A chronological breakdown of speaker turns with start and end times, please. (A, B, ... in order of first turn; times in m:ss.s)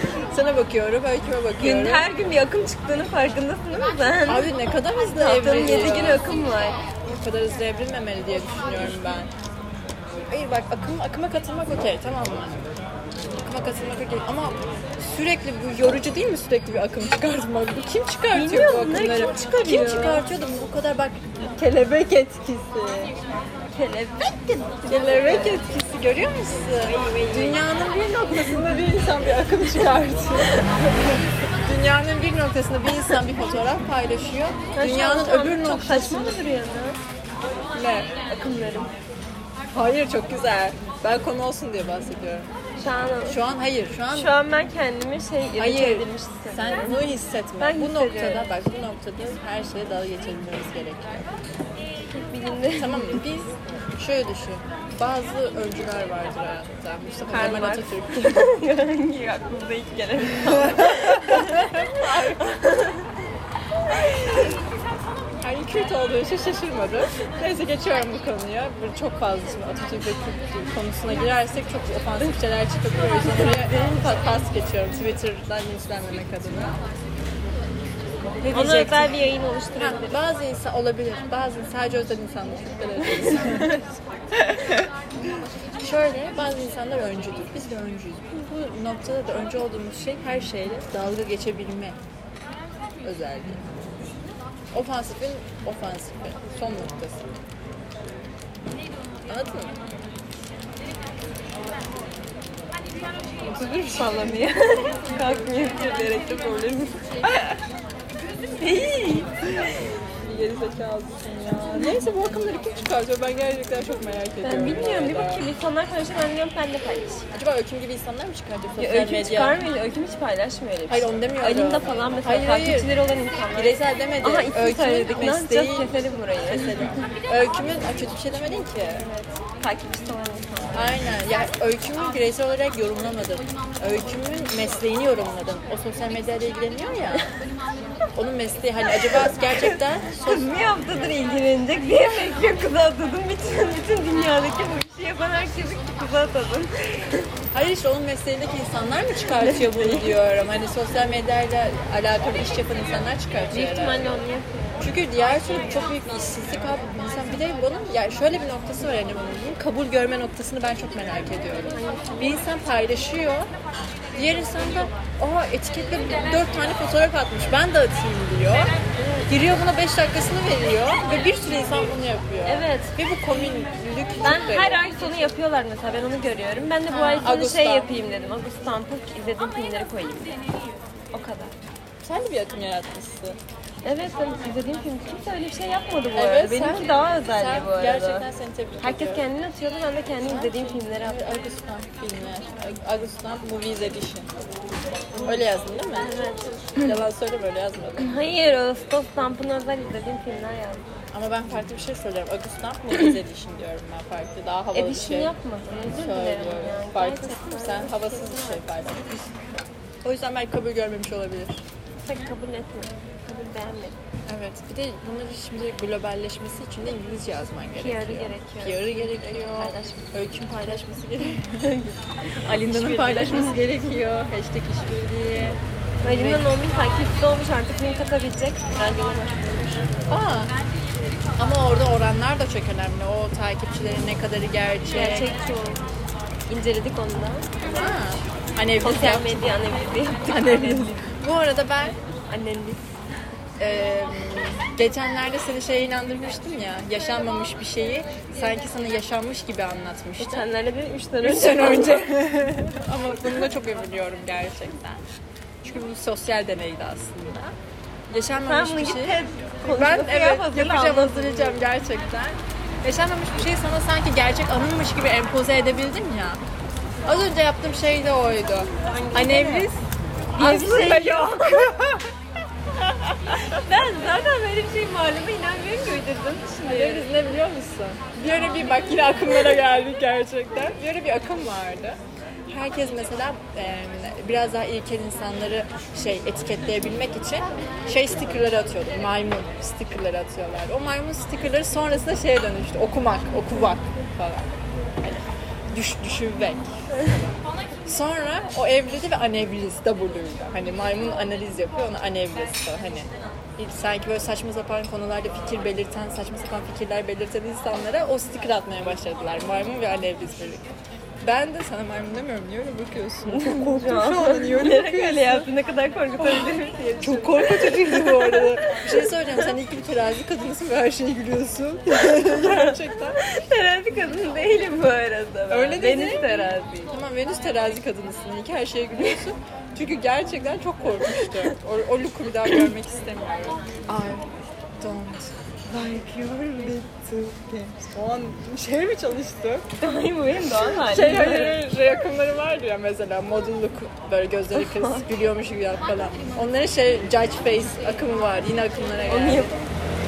0:00.3-0:02.0 A
0:01.6-0:04.5 B
0:04.3-0:06.2 A
0:05.2-0:06.8 B
0:07.0-0:09.3 A
0:10.3-0:12.6 A
0:13.4-0:23.1 A
0:18.3-0:20.3 B
0:23.7-0:25.6 B
0:24.9-0:36.4 A
0:26.8-0:27.6 B
0:34.7-0:37.0 B
0:37.7-0:38.1 A
0:38.2-0:38.9 B
0:39.7-0:42.5 A
0:42.8-0:43.4 B
0:43.2-0:44.3 A
0:44.1-0:47.0 B
0:45.6-0:51.3 A
0:47.6-0:48.5 B
0:52.1-0:53.2 B
0:52.8-0:58.4 A
0:57.3-1:03.1 B
1:00.4-1:02.6 A
1:04.1-1:04.5 A
1:05.4-1:16.8 A
1:13.0-1:14.2 B
1:18.4-1:20.2 B
1:18.5-1:19.2 A
1:19.8-1:24.9 A
1:23.2-1:23.7 B
1:25.8-1:32.0 A
1:33.0-1:33.7 A
1:34.7-1:37.3 A
1:39.3-1:39.8 A
1:43.4-1:44.4 A
1:43.9-1:47.1 B
1:48.6-1:49.3 B
1:48.7-1:49.2 A
1:50.2-1:55.4 A
1:54.4-1:57.2 B
1:57.3-1:59.6 A
1:58.8-2:07.0 B
2:00.9-2:02.9 A
2:03.5-2:05.9 A
2:06.4-2:09.1 A
2:09.0-2:11.0 B
2:10.7-2:17.3 A
2:18.1-2:20.5 A
2:19.6-2:27.3 B
2:27.5-2:34.2 A
2:29.4-2:30.1 B
2:33.5-2:34.8 B
2:34.8-2:43.5 A
2:41.7-2:42.4 B
2:44.1-2:48.7 A
2:49.0-2:49.3 B
2:49.3-2:54.8 A
2:52.4-2:52.9 B
2:54.2-3:00.4 B
2:56.9-2:57.9 A
3:01.1-3:01.5 B
3:02.0-3:03.4 A
3:03.8-3:08.3 B
3:06.1-3:09.2 A
3:08.8-3:11.3 B
3:10.2-3:14.3 A
3:15.2-3:16.1 A
3:16.0-3:16.7 B
3:16.8-3:18.1 A
3:18.0-3:20.8 B
3:21.1-3:25.3 A
3:24.7-3:28.9 B
3:25.9-3:29.3 A
3:30.0-3:31.6 A
3:32.0-3:34.0 B
3:34.3-3:41.7 A
3:37.7-3:40.1 B
3:41.6-3:43.8 B
3:42.3-3:46.5 A
3:46.0-3:49.9 B
3:50.1-3:50.5 A
3:51.4-3:55.3 A
3:54.9-3:55.8 B
3:56.5-3:57.9 B
3:57.7-3:59.6 A
3:58.8-4:01.0 B
4:00.2-4:02.0 A
4:02.3-4:02.9 B
4:03.6-4:10.4 A
4:10.2-4:12.1 B
4:11.2-4:15.0 A
4:15.6-4:17.5 A
4:18.1-4:26.4 A
4:18.4-4:21.6 B
4:27.0-4:29.8 A
4:28.8-4:29.7 B
4:30.3-4:31.7 B
4:30.4-4:32.1 A
4:32.8-4:33.6 A
4:33.5-4:37.1 B
4:36.6-4:54.5 A
4:55.0-4:56.7 A
4:57.8-5:10.6 A
5:11.2-5:15.5 A
5:13.3-5:19.3 B
5:16.2-5:16.5 A
5:17.0-5:23.2 A
5:22.2-5:26.9 B
5:25.5-5:26.3 A
5:26.9-5:34.3 A
5:34.8-5:39.7 A
5:39.8-5:41.6 B
5:40.7-5:49.6 A
5:44.5-5:45.0 B
5:49.1-5:49.6 B